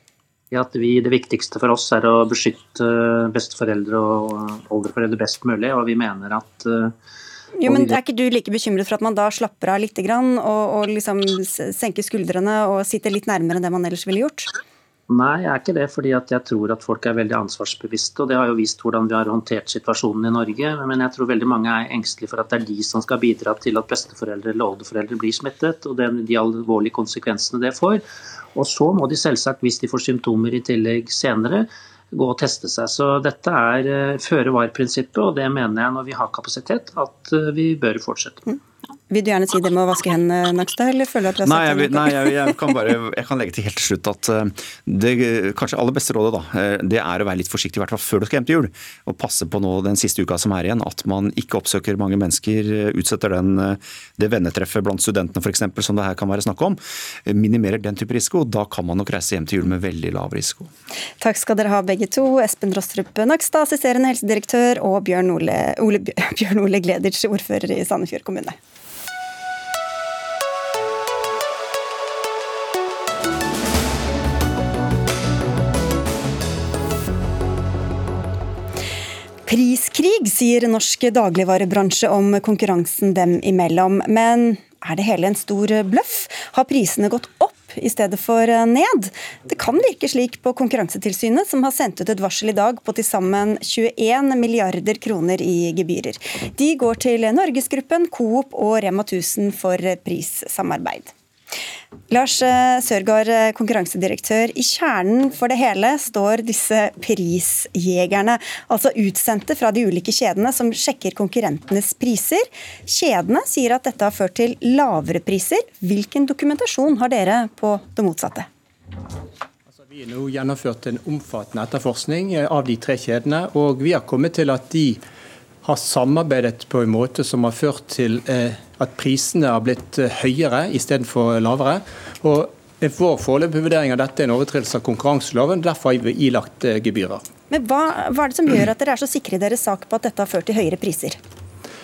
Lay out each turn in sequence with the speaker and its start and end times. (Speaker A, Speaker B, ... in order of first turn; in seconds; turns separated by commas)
Speaker A: 0.5-6.9, Speaker B: 7.6-14.5, Speaker A: 7.7-7.9, Speaker A: 15.1-28.0, Speaker A: 28.5-38.5, Speaker B: 39.1-42.5, Speaker C: 41.4-60.7, Speaker B: 61.2-68.5, Speaker B: 79.5-101.1, Speaker B: 102.1-118.5, Speaker D: 119.7-125.0, Speaker D: 125.6-137.2, Speaker B: 137.5-141.2